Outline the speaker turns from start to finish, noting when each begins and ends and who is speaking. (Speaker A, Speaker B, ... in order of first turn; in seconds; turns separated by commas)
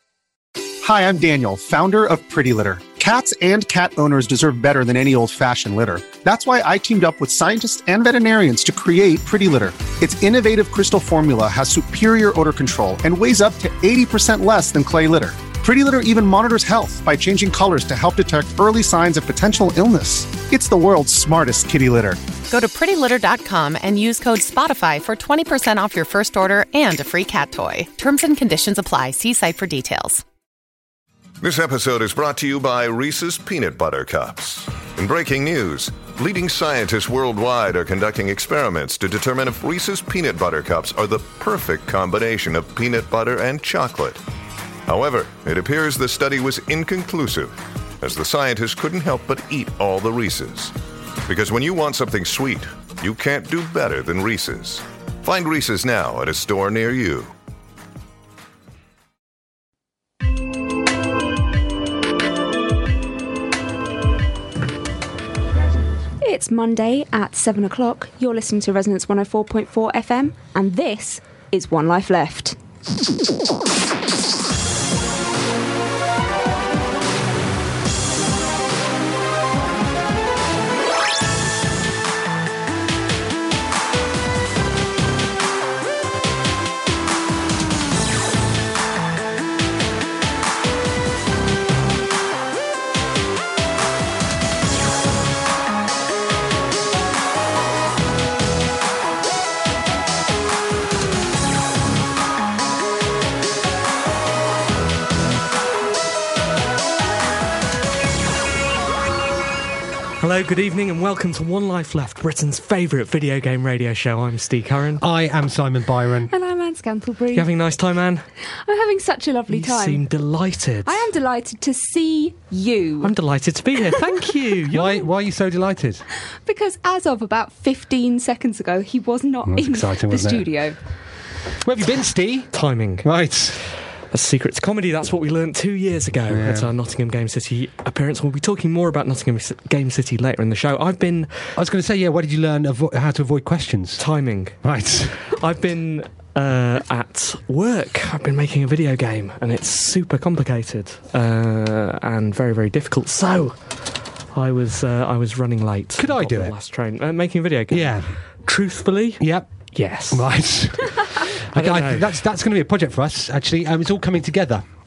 Speaker A: 0.8-22.2, Speaker B: 22.5-30.2, Speaker C: 31.4-44.2, Speaker C: 44.9-50.8, Speaker C: 51.3-57.3, Speaker D: 66.2-72.6, Speaker E: 110.2-115.0, Speaker F: 115.0-116.3, Speaker D: 116.3-117.5, Speaker E: 117.3-118.2, Speaker D: 118.7-120.0, Speaker E: 119.5-121.0, Speaker D: 120.8-123.1, Speaker E: 123.0-125.0, Speaker F: 124.7-126.1, Speaker D: 126.5-130.8, Speaker F: 129.5-130.5, Speaker F: 131.6-132.5, Speaker E: 132.5-133.1, Speaker F: 133.0-133.6, Speaker E: 134.1-141.6, Speaker F: 136.3-136.7, Speaker F: 141.6-144.0, Speaker E: 144.0-144.6, Speaker F: 144.6-145.2, Speaker E: 145.2-153.6, Speaker E: 154.3-160.3, Speaker F: 156.0-156.6, Speaker F: 157.7-158.1, Speaker F: 159.2-159.5, Speaker F: 160.1-164.6, Speaker E: 161.5-162.2